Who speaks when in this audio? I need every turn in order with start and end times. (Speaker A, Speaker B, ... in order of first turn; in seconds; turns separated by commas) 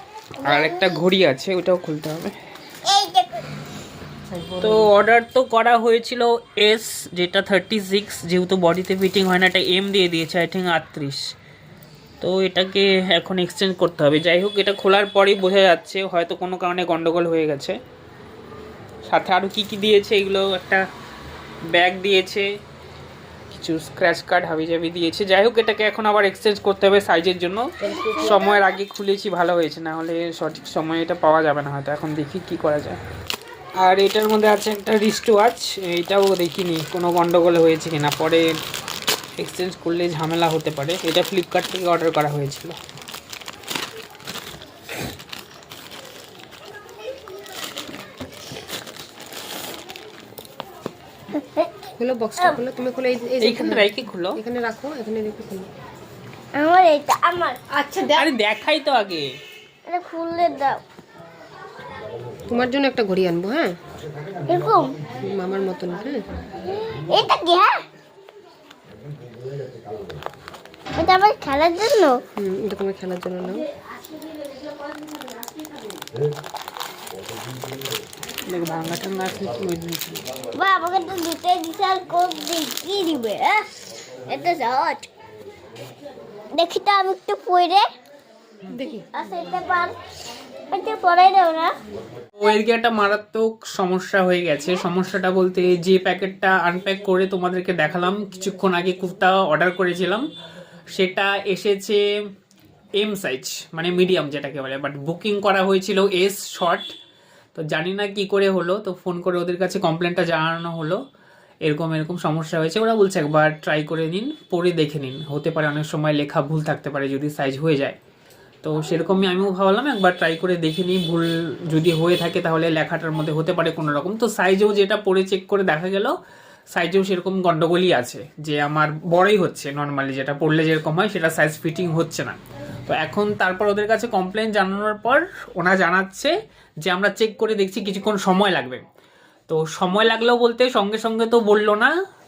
Speaker A: 0.4-2.4, Speaker B: 0.4-1.0, Speaker B: 2.8-3.5, Speaker A: 4.6-11.3, Speaker A: 12.2-17.8, Speaker A: 19.1-20.8, Speaker A: 21.7-22.5, Speaker A: 23.5-33.0, Speaker A: 33.8-38.5, Speaker A: 39.4-42.8, Speaker B: 51.3-51.9, Speaker C: 52.0-55.7, Speaker A: 53.4-54.4, Speaker B: 56.5-57.6, Speaker A: 58.0-59.3, Speaker B: 59.9-60.8, Speaker C: 62.5-63.7, Speaker B: 64.5-65.0, Speaker C: 65.1-66.2, Speaker B: 67.1-67.8, Speaker B: 70.9-72.2, Speaker C: 72.4-73.6, Speaker A: 78.5-80.2, Speaker B: 80.5-83.7, Speaker B: 84.3-85.1, Speaker B: 86.6-87.8, Speaker C: 88.7-89.0, Speaker B: 89.1-90.0, Speaker B: 90.7-91.7, Speaker A: 92.4-100.2, Speaker A: 100.9-102.0, Speaker A: 103.0-106.9, Speaker A: 107.5-111.0, Speaker A: 111.6-118.0, Speaker A: 118.6-126.1, Speaker A: 126.7-132.4, Speaker A: 132.9-136.3, Speaker A: 136.8-138.8, Speaker A: 139.5-141.9